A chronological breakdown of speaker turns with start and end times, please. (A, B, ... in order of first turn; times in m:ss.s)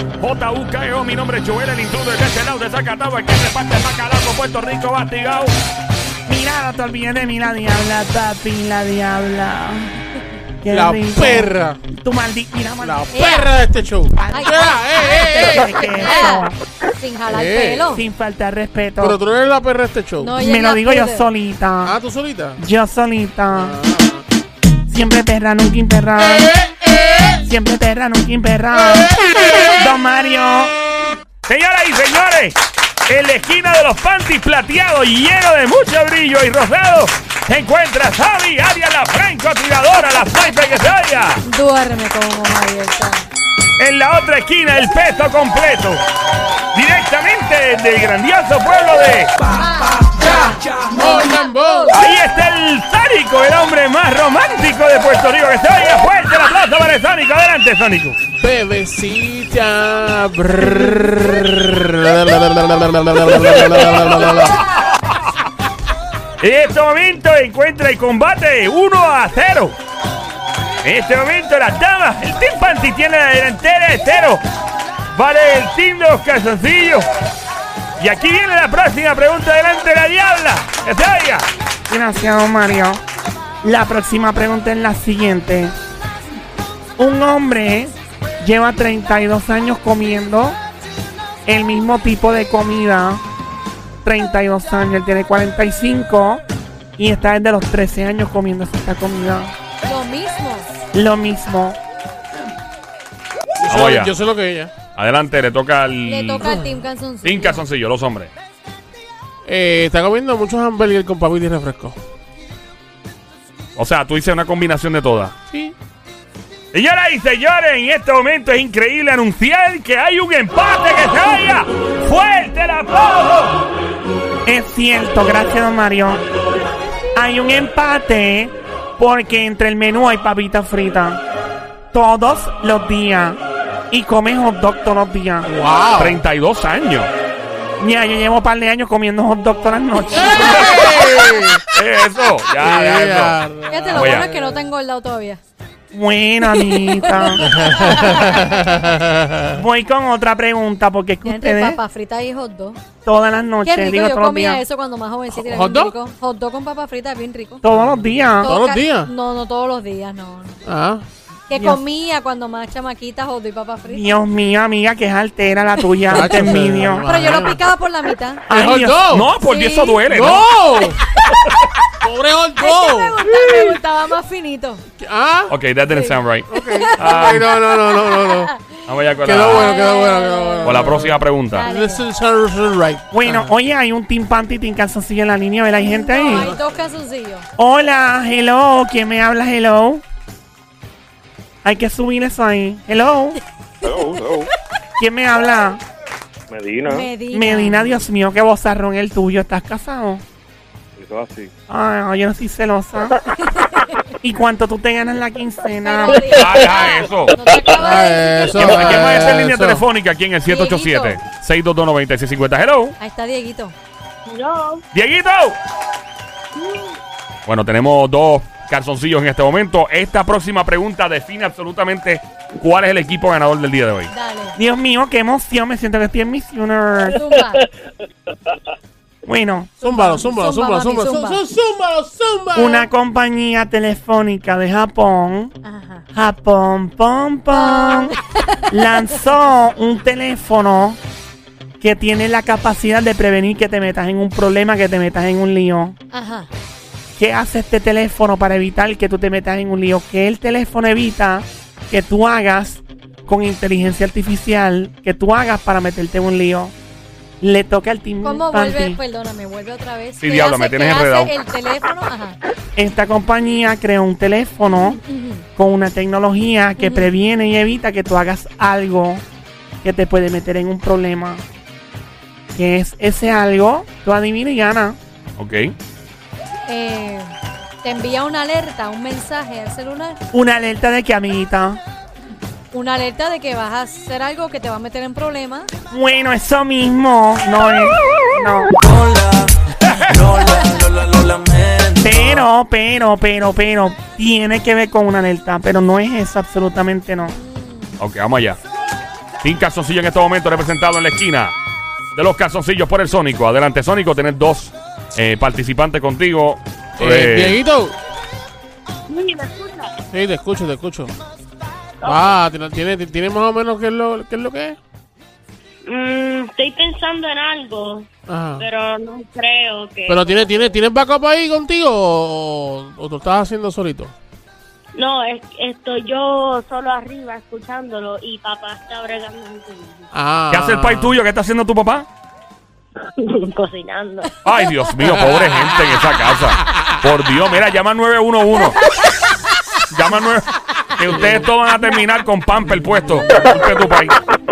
0:00.2-0:05.5 A
0:06.3-0:10.0 B
0:10.6-0:13.3 B
0:10.7-0:11.8 C
0:12.8-0:16.0 C
0:13.1-0:13.5 D
0:14.2-0:16.6 B
0:14.3-0:18.0 D
0:17.3-0:17.9 C
0:17.9-0:19.2 B
0:19.0-0:20.3 C
0:20.2-0:21.3 D
0:20.4-0:22.0 B
0:21.8-0:22.6 C
0:22.6-0:23.8 B
0:23.5-0:24.2 C
0:24.9-0:26.5 B
0:27.4-0:30.7 B
0:31.4-0:41.4 A
0:41.4-0:43.2 D
0:43.8-0:46.0 A
0:46.7-0:49.4 A
0:49.5-0:52.0 D
0:50.4-0:52.0 C
0:51.9-0:58.2 A
0:58.4-1:04.6 C
1:06.4-1:09.8 A
1:10.8-1:14.4 A
1:15.1-1:17.1 A
1:18.0-1:21.5 A
1:21.9-1:23.0 B
1:23.6-1:25.7 B
1:27.0-1:30.6 B
1:31.4-1:33.2 B
1:34.0-1:36.4 B
1:37.0-1:39.5 B
1:39.8-1:40.8 D
1:40.9-1:41.8 B
1:43.6-1:44.8 C
1:43.6-1:44.2 A
1:44.9-1:46.5 A
1:46.0-1:47.6 D
1:47.2-1:48.3 A
1:49.4-1:52.0 C
1:53.7-1:55.3 A
1:55.5-1:55.7 C
1:56.7-2:03.6 A
2:04.4-2:06.2 B
2:07.1-2:11.2 B
2:11.9-2:13.4 B
2:13.9-2:15.5 B
2:15.4-2:16.2 C
2:16.0-2:17.1 A
2:17.8-2:21.1 B
2:20.2-2:21.7 C
2:21.7-2:23.4 A
2:22.6-2:24.6 C
2:23.7-2:25.4 D
2:25.9-2:27.5 B
2:26.6-2:28.5 D
2:27.4-2:29.6 C
2:29.5-2:31.8 B
2:31.2-2:32.8 D
2:33.0-2:34.6 B
2:33.6-2:37.6 D
2:35.3-2:35.9 C
2:37.6-2:38.5 B
2:38.4-2:40.6 D
2:38.4-2:39.1 C
2:40.6-2:41.0 C
2:41.5-2:44.1 D
2:41.5-2:41.8 B
2:43.9-2:47.0 B
2:46.1-2:48.4 D
2:46.1-2:47.6 C
2:48.5-2:49.1 B
2:48.5-2:49.3 C
2:49.1-2:50.5 A
2:49.4-2:50.0 D
2:50.1-2:51.0 C
2:50.8-2:51.4 D
2:52.0-2:53.3 C
2:52.6-2:54.8 D
2:55.0-2:55.5 C
2:55.5-2:57.5 A
2:55.9-2:58.6 D
2:56.5-3:03.5 C
2:58.8-2:59.7 A
2:59.3-3:00.9 D
3:00.6-3:01.7 A
3:01.5-3:02.0 D
3:03.1-3:06.5 B
3:05.8-3:07.4 D
3:07.6-3:10.0 B
3:11.6-3:13.4 B
3:13.8-3:14.5 E
3:15.0-3:15.8 B
3:16.5-3:17.1 E
3:16.8-3:17.9 D
3:17.3-3:20.2 B
3:21.0-3:21.5 E
3:21.7-3:23.2 B
3:23.4-3:24.1 D
3:24.2-3:26.6 B
3:25.8-3:29.3 D
3:26.4-3:27.4 A
3:27.8-3:29.8 C
3:28.6-3:33.0 A
3:30.4-3:31.2 D
3:33.0-3:33.7 D
3:34.3-3:34.8 F
3:34.9-3:35.6 A
3:36.6-3:36.9 F
3:37.4-3:44.1 A
3:44.1-3:44.6 D
3:44.6-3:47.2 B
3:47.1-3:47.7 D
3:49.2-3:49.7 B
3:49.8-3:51.4 D
3:49.8-3:52.9 C
3:52.5-3:55.5 B
3:55.6-3:56.0 D
3:56.1-3:58.2 B
3:57.5-3:58.9 D
3:58.7-4:01.0 B
4:01.8-4:06.0 B
4:06.1-4:06.5 D
4:07.2-4:16.7 B
4:17.4-4:19.0 B
4:18.2-4:22.4 D
4:20.2-4:21.3 A
4:22.8-4:25.0 B
4:25.0-4:25.4 D
4:25.6-4:29.2 B
4:26.8-4:27.1 D
4:29.8-4:31.4 B
4:32.5-4:35.0 B
4:35.4-4:35.7 A
4:36.7-4:37.3 D
4:37.8-4:40.2 D
4:40.3-4:41.8 B
4:42.7-4:45.7 D
4:45.9-4:49.1 B
4:49.9-4:50.2 A
4:50.4-4:50.8 D
4:51.9-4:57.3 B
4:57.3-4:58.0 D
4:58.0-4:58.6 A
4:59.4-5:01.5 A
5:02.1-5:07.6 A
5:07.0-5:08.0 C
5:09.1-5:10.0 F
5:10.1-5:11.2 C
5:12.0-5:12.3 F
5:12.0-5:14.8 C
5:15.9-5:18.1 F
5:18.3-5:18.7 C
5:18.6-5:20.5 F
5:20.0-5:24.1 C
5:24.9-5:30.1 F
5:30.1-5:31.1 C
5:30.5-5:32.1 A
5:33.2-5:34.5 F
5:34.4-5:38.8 A
5:35.0-5:36.2 C
5:39.9-5:44.2 A
5:41.1-5:41.4 C